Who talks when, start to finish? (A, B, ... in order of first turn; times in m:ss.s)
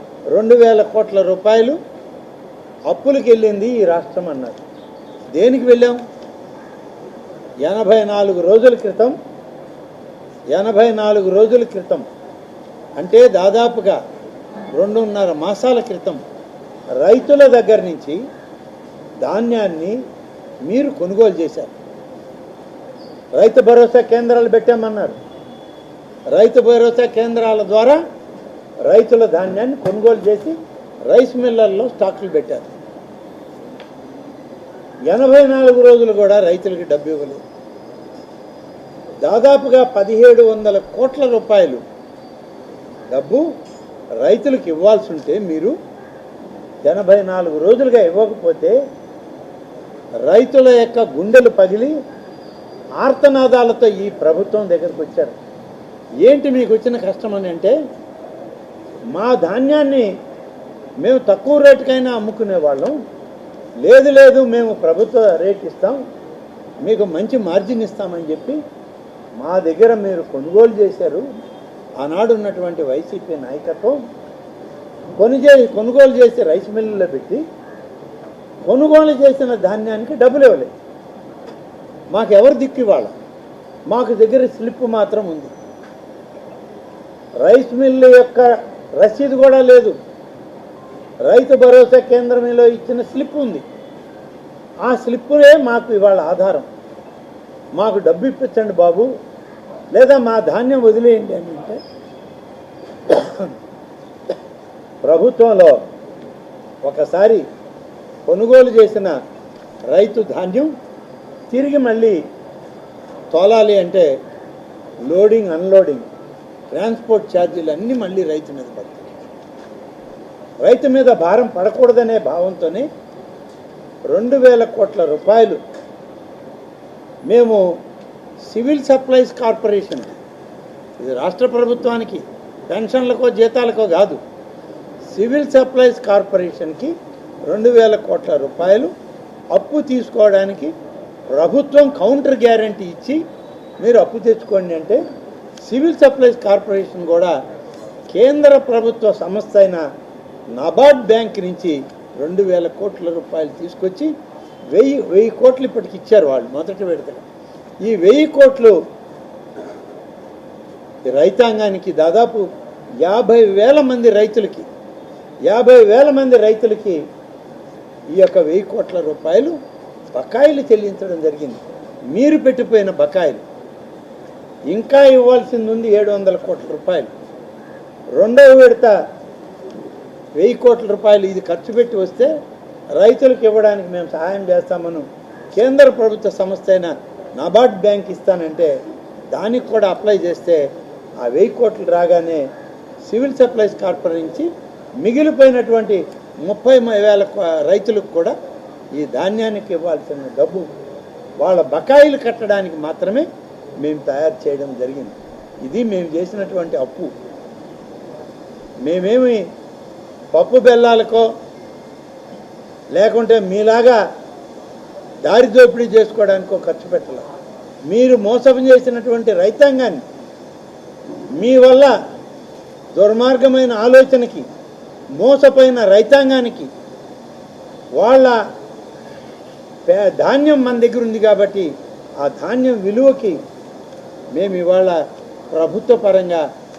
0:00.3-0:01.8 A
0:02.9-0:04.6 A
0:05.4-0:06.0 A
0:07.6-0:09.2 A
0:10.5-0:12.0 A
0:13.0-0:14.0 A
0:14.8-0:16.2 A
0:17.0-0:18.2 A
0:19.2-0:20.0 A
0:20.7-0:21.7 A
0:23.4-0:25.2 A
0:26.3-0:28.0 A
0:28.9-0:32.7 A
0:35.1-0:37.4 A
0:39.2-0:41.8 A
0:43.1-0:43.5 A
0:44.2-0:45.8 A
0:46.8-0:48.8 A
0:50.2-0:52.0 A
0:53.0-0:55.4 A
0:56.2-0:57.8 A
0:59.1-1:00.1 A
1:01.0-1:03.0 A
1:03.8-1:06.0 A
1:06.8-1:08.6 A
1:09.4-1:11.2 A
1:12.0-1:14.0 A
1:15.2-1:17.4 A
1:18.7-1:20.7 A
1:22.1-1:23.1 A
1:23.9-1:25.5 A
1:27.4-1:30.0 A
1:31.2-1:33.6 A
1:34.8-1:36.7 A
1:37.8-1:39.1 A
1:39.9-1:41.8 A
1:43.1-1:43.5 A
1:45.0-1:45.8 A
1:46.8-1:47.4 A
1:48.3-1:49.2 A
1:49.9-1:50.7 A
1:51.5-1:52.2 A
1:53.3-1:54.1 A
1:55.1-1:56.1 A
1:56.7-1:59.1 A
2:00.6-2:02.9 A
2:04.1-2:05.6 A
2:07.3-2:07.6 A
2:08.5-2:10.2 A
2:11.0-2:14.2 A
2:15.1-2:16.9 A
2:17.5-2:18.9 A
2:19.5-2:20.7 A
2:21.3-2:23.2 A
2:23.8-2:25.0 A
2:25.6-2:27.3 A
2:28.1-2:29.8 A
2:30.6-2:34.1 A
2:34.7-2:37.2 A
2:37.8-2:38.8 A
2:41.1-2:42.5 A
2:43.0-2:44.7 A
2:45.5-2:47.0 A
2:48.1-2:49.6 A
2:50.1-2:53.4 A
2:54.7-2:57.1 A
2:58.2-2:59.0 A
3:00.4-3:02.3 A
3:02.9-3:08.8 A
3:09.3-3:10.6 A
3:11.2-3:12.5 A
3:13.0-3:14.5 A
3:15.0-3:18.4 A
3:18.9-3:20.7 A
3:21.4-3:23.3 A
3:23.8-3:27.1 A
3:28.8-3:29.4 A
3:30.3-3:31.3 A
3:32.9-3:34.0 A
3:35.2-3:37.3 A
3:37.9-3:40.0 A
3:41.4-3:41.9 A
3:43.0-3:44.5 A
3:45.2-3:46.7 A
3:48.0-3:48.4 A
3:49.9-3:53.4 A
3:54.3-3:56.4 A